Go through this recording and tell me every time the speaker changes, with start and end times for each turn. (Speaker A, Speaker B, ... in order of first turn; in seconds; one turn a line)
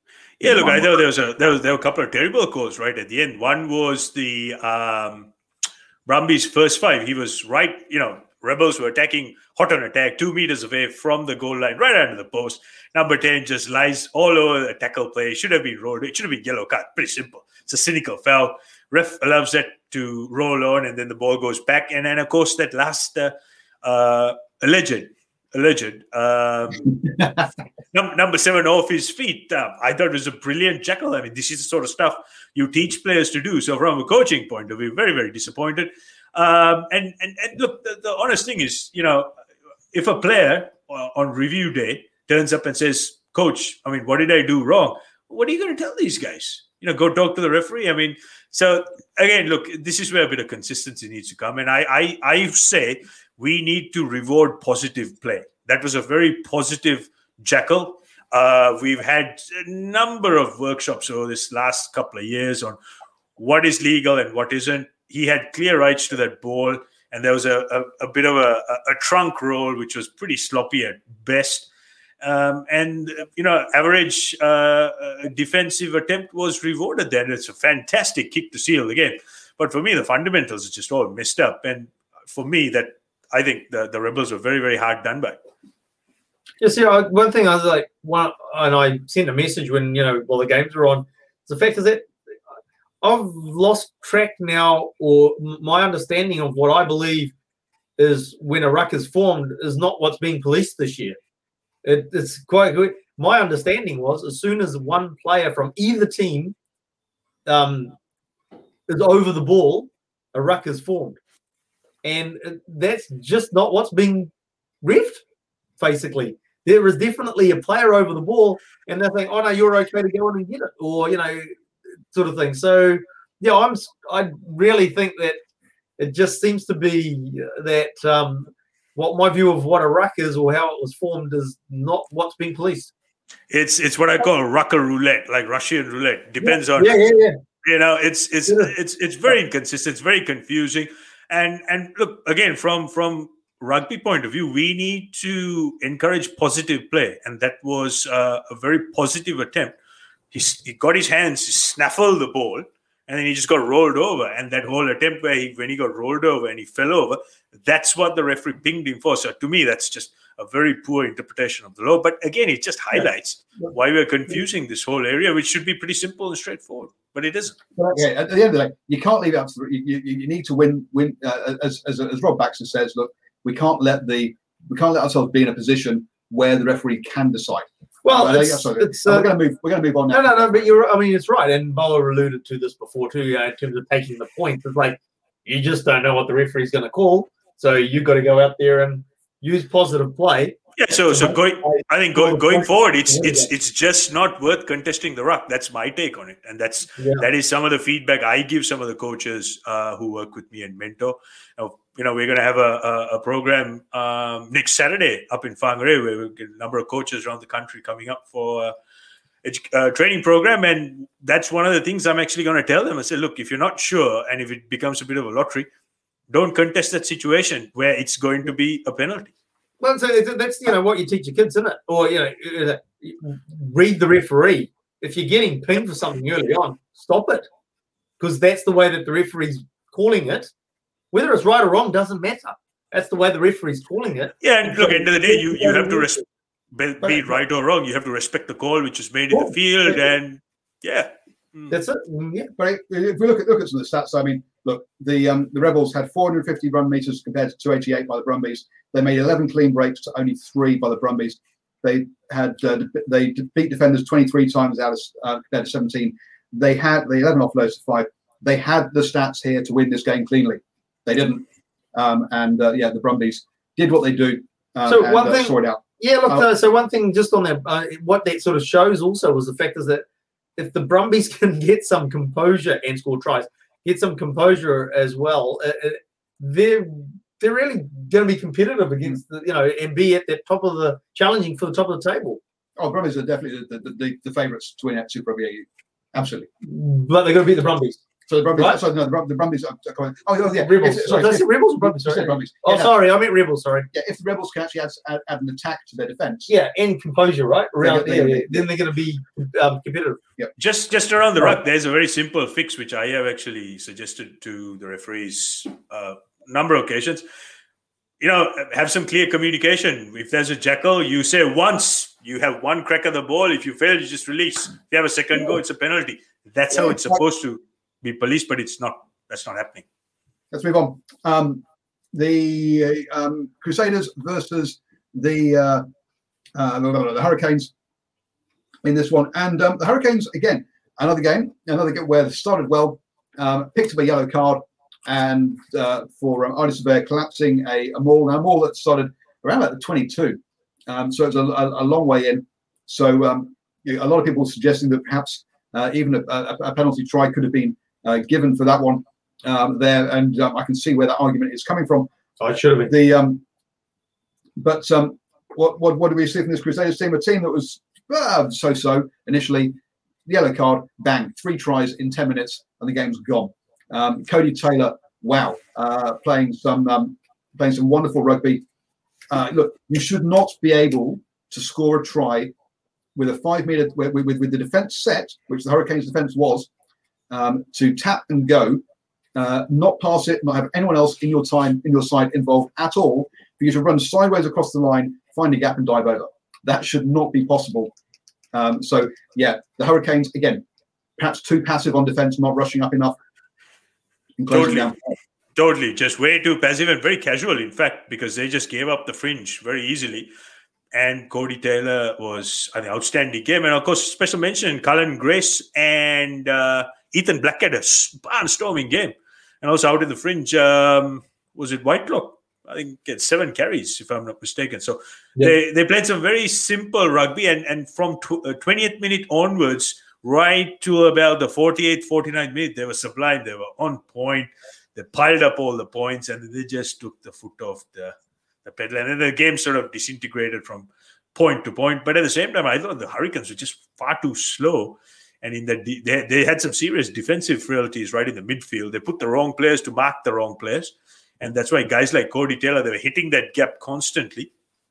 Speaker A: 0.4-5.3
Speaker B: 0.4-0.9
Speaker A: 6.0-27.0
Speaker A: 27.9-39.3
Speaker A: 39.9-62.8
Speaker A: 63.4-71.7
Speaker A: 72.2-85.4
Speaker C: 86.6-92.1
Speaker C: 93.0-97.3
Speaker C: 98.0-101.2
Speaker C: 101.8-106.5
Speaker C: 107.5-107.9
Speaker C: 108.9-111.2
Speaker C: 112.0-114.3
Speaker C: 114.8-115.2
Speaker C: 115.8-121.5
Speaker C: 122.1-125.4
Speaker C: 126.0-132.9
Speaker A: 133.5-137.1
Speaker C: 136.4-137.4
Speaker A: 137.6-149.7
Speaker A: 150.3-167.6
Speaker B: 167.8-180.7
Speaker C: 178.0-179.3
Speaker C: 180.1-190.6
Speaker A: 190.8-208.7
Speaker C: 191.1-193.5
Speaker C: 197.0-197.2
Speaker A: 209.4-215.7
Speaker A: 216.3-219.3
Speaker C: 219.8-227.5
Speaker C: 228.2-230.5
Speaker C: 231.1-236.0
Speaker A: 234.4-241.7
Speaker C: 239.3-239.9
Speaker C: 241.7-242.5
Speaker B: 242.6-266.5
Speaker C: 264.9-270.0
Speaker C: 270.6-282.4
Speaker B: 282.8-286.5
Speaker C: 286.6-288.0
Speaker B: 288.3-293.0
Speaker C: 288.5-288.8
Speaker C: 290.5-293.9
Speaker B: 293.9-296.5
Speaker C: 296.5-300.2
Speaker B: 297.8-298.7
Speaker A: 300.6-307.2
Speaker A: 308.2-319.8
Speaker B: 320.5-325.8
Speaker B: 326.5-327.7
Speaker B: 328.8-352.1
Speaker C: 352.4-352.9
Speaker B: 352.9-353.4
Speaker B: 354.6-359.7
Speaker B: 360.2-368.6
Speaker B: 369.3-372.5
Speaker B: 373.1-376.7
Speaker B: 377.3-378.8
Speaker B: 379.3-387.9
Speaker B: 388.5-390.6
Speaker B: 391.2-393.1
Speaker B: 394.4-395.1
Speaker A: 394.5-394.9
Speaker A: 395.6-400.3
Speaker A: 400.9-444.5